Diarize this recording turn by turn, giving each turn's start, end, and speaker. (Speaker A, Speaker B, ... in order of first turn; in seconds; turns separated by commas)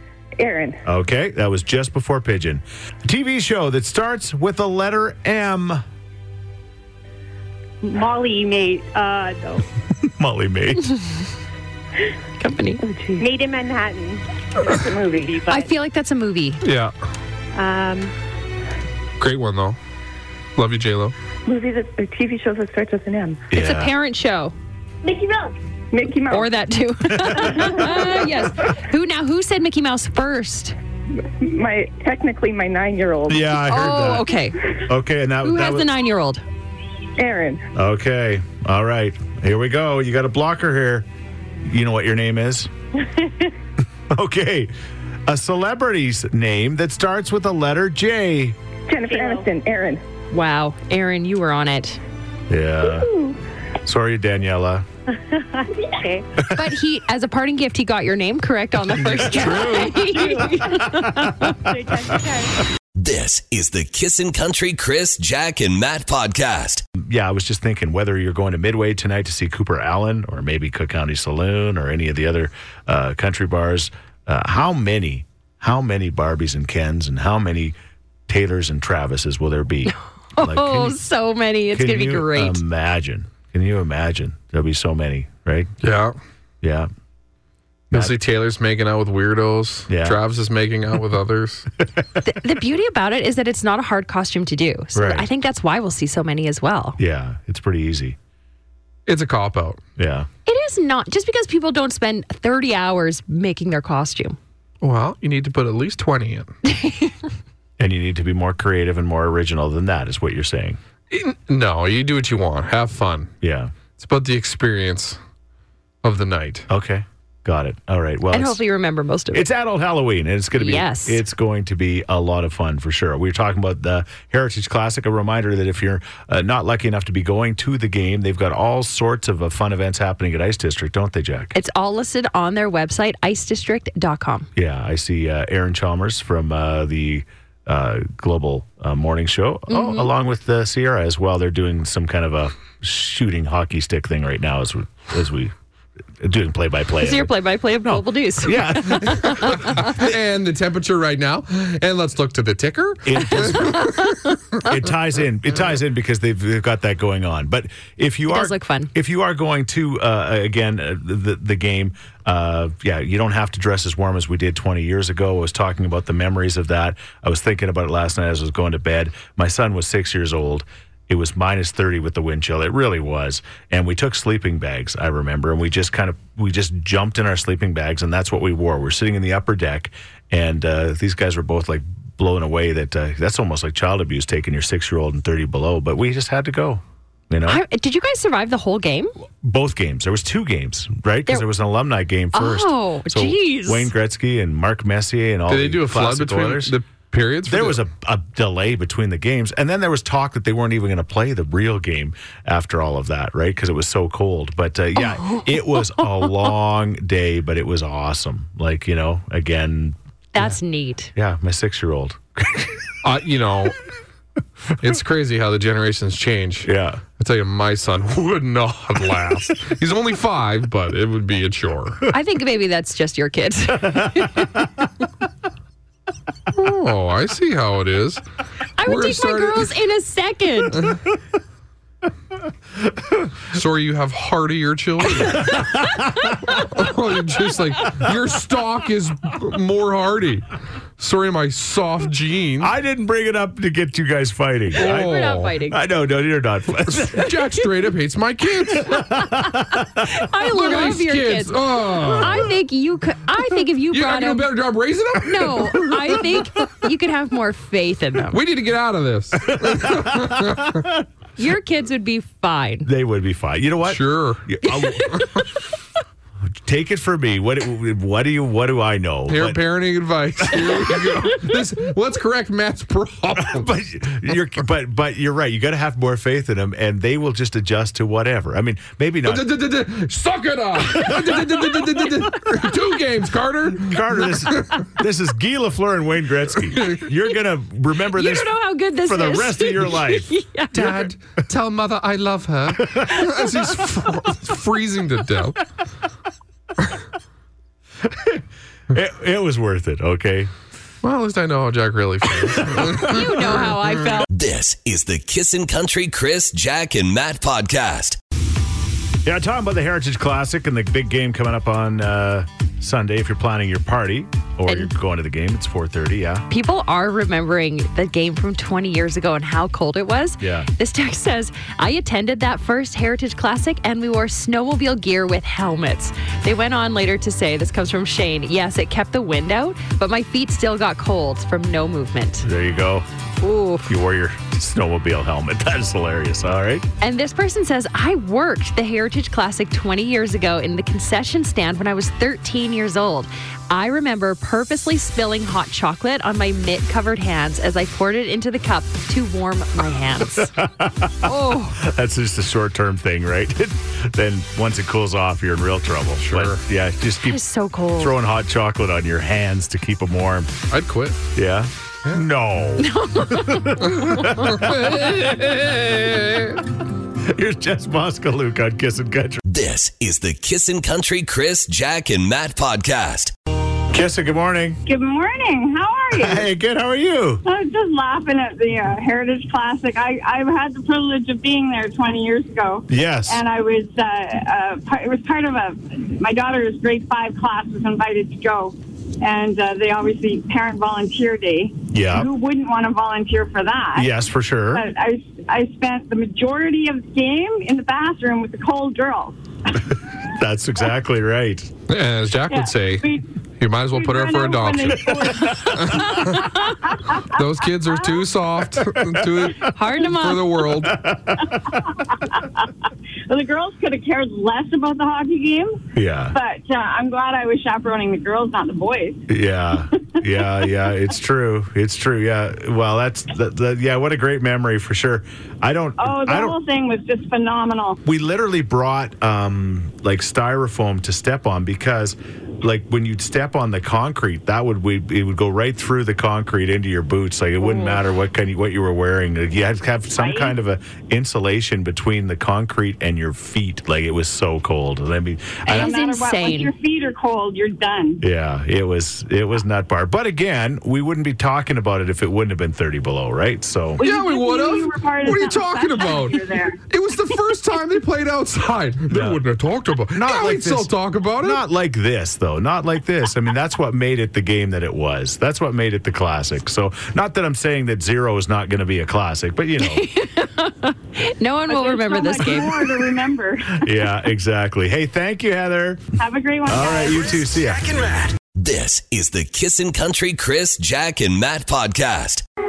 Speaker A: 0.4-0.8, Speaker B: 0.8-5.8, Speaker C: 7.8-9.6, Speaker B: 10.0-11.0, Speaker D: 12.4-12.8, Speaker A: 12.8-13.3, Speaker C: 13.2-15.7, Speaker A: 14.6-15.3, Speaker D: 15.5-16.6, Speaker E: 16.6-16.9, Speaker C: 17.5-18.1, Speaker E: 19.2-19.8, Speaker E: 20.6-21.1, Speaker A: 21.5-23.4, Speaker B: 23.5-23.9, Speaker D: 23.5-24.5, Speaker C: 25.0-25.5, Speaker A: 25.9-26.6, Speaker D: 26.3-30.8, Speaker B: 27.1-27.5, Speaker A: 27.4-28.4, Speaker A: 31.2-33.7, Speaker B: 33.3-35.9, Speaker D: 33.7-34.8, Speaker D: 35.4-36.4, Speaker A: 37.2-37.6, Speaker B: 37.7-41.1, Speaker B: 41.6-42.7, Speaker B: 44.1-44.7, Speaker B: 45.2-48.6, Speaker A: 48.9-50.0, Speaker C: 49.0-49.5, Speaker D: 50.3-52.0, Speaker B: 52.5-53.1, Speaker A: 53.0-53.4, Speaker B: 53.8-54.9, Speaker C: 55.3-56.3, Speaker D: 56.5-61.6, Speaker B: 59.0-60.0, Speaker C: 59.6-62.6, Speaker B: 61.0-61.5, Speaker F: 62.9-66.8, Speaker B: 66.9-77.7, Speaker B: 78.3-81.0, Speaker D: 80.3-82.6, Speaker B: 81.7-85.7, Speaker E: 85.8-86.1, Speaker B: 86.6-86.9, Speaker E: 87.9-91.7, Speaker B: 89.9-90.2, Speaker D: 92.2-97.0, Speaker B: 94.9-95.3, Speaker B: 97.0-98.2, Speaker E: 99.0-99.8, Speaker B: 100.0-100.3, Speaker D: 100.5-104.4, Speaker E: 104.8-106.5, Speaker D: 106.7-107.2, Speaker B: 107.8-110.8, Speaker E: 111.1-113.3, Speaker B: 113.4-113.7, Speaker E: 114.0-115.2, Speaker E: 116.0-116.7, Speaker B: 116.7-118.6, Speaker D: 118.3-119.5, Speaker B: 119.3-131.5, Speaker D: 120.6-121.2, Speaker D: 131.5-134.5, Speaker B: 134.5-145.5, Speaker D: 139.7-140.1, Speaker B: 146.2-147.3, Speaker D: 147.0-149.9, Speaker B: 147.9-150.0, Speaker E: 149.0-154.1, Speaker B: 153.0-154.0, Speaker D: 153.6-154.3, Speaker B: 154.6-187.6, Speaker D: 158.3-158.9, Speaker D: 187.4-189.1, Speaker B: 189.4-196.8, Speaker D: 192.3-193.9, Speaker E: 195.5-197.8, Speaker B: 197.4-210.6, Speaker D: 205.2-205.7, Speaker D: 210.3-211.1, Speaker B: 211.1-212.9, Speaker E: 213.0-213.8, Speaker E: 214.8-222.0, Speaker B: 216.6-217.0, Speaker D: 222.1-224.5, Speaker B: 223.8-224.7, Speaker E: 226.5-228.2, Speaker D: 228.8-230.9, Speaker E: 228.8-229.7, Speaker B: 233.0-233.3, Speaker E: 233.5-235.7, Speaker B: 235.2-236.8, Speaker E: 236.5-240.5, Speaker E: 241.0-242.7, Speaker B: 242.6-247.4, Speaker D: 244.8-245.8, Speaker E: 244.8-245.6, Speaker E: 246.9-249.1, Speaker B: 248.7-250.2, Speaker D: 249.3-254.5, Speaker E: 250.5-252.5, Speaker E: 253.9-256.3, Speaker D: 255.2-258.4, Speaker E: 258.3-260.8, Speaker B: 259.4-261.0, Speaker D: 261.4-262.9, Speaker B: 262.8-265.3, Speaker E: 263.9-264.5, Speaker D: 264.7-265.1, Speaker E: 265.1-265.4, Speaker B: 266.5-269.6, Speaker E: 269.3-273.7, Speaker B: 270.4-271.2, Speaker B: 273.4-279.5, Speaker E: 279.2-284.9, Speaker B: 280.9-281.9, Speaker B: 283.8-291.0, Speaker E: 286.7-287.1, Speaker D: 288.1-291.0, Speaker E: 290.7-295.6, Speaker B: 292.9-293.3, Speaker B: 298.0-300.5, Speaker E: 301.0-303.9, Speaker B: 302.5-303.6, Speaker D: 302.9-304.3, Speaker F: 304.3-308.2, Speaker B: 309.2-316.4, Speaker D: 316.5-332.5, Speaker B: 320.4-320.7, Speaker B: 332.4-333.1, Speaker D: 333.4-333.9, Speaker B: 333.9-336.9, Speaker D: 337.0-350.5, Speaker B: 350.4-357.4, Speaker D: 351.2-351.8, Speaker E: 356.2-356.6, Speaker D: 357.2-358.2, Speaker B: 357.9-360.5, Speaker E: 360.7-361.2, Speaker B: 361.3-365.0, Speaker D: 362.8-364.4, Speaker E: 364.0-366.6, Speaker B: 367.2-369.4, Speaker F: 369.4-373.3, Speaker B: 373.9-374.8, Speaker G: 374.9-376.5, Speaker B: 376.2-377.4, Speaker G: 377.4-394.1, Speaker B: 382.9-383.4, Speaker B: 391.9-392.3, Speaker B: 393.9-394.9, Speaker G: 394.7-400.0, Speaker B: 400.2-401.7, Speaker E: 401.9-406.5, Speaker G: 402.5-403.3, Speaker G: 403.9-408.2, Speaker B: 405.2-405.8, Speaker D: 405.4-406.8, Speaker E: 407.2-411.1, Speaker B: 408.9-409.8, Speaker D: 409.7-410.4, Speaker B: 410.7-412.0, Speaker G: 412.1-412.7, Speaker G: 413.3-419.2, Speaker B: 415.9-416.4, Speaker B: 419.3-426.6, Speaker G: 420.0-420.7, Speaker G: 426.0-428.0, Speaker B: 428.0-445.9, Speaker D: 437.6-438.0, Speaker G: 440.1-440.5, Speaker G: 445.6-448.2, Speaker D: 445.7-446.7, Speaker B: 448.2-454.0, Speaker G: 454.0-456.8, Speaker E: 454.0-461.6, Speaker B: 459.1-459.4, Speaker B: 460.1-470.1, Speaker D: 469.8-473.2, Speaker G: 471.7-473.9, Speaker B: 473.7-478.4, Speaker G: 476.2-477.5, Speaker F: 478.5-482.4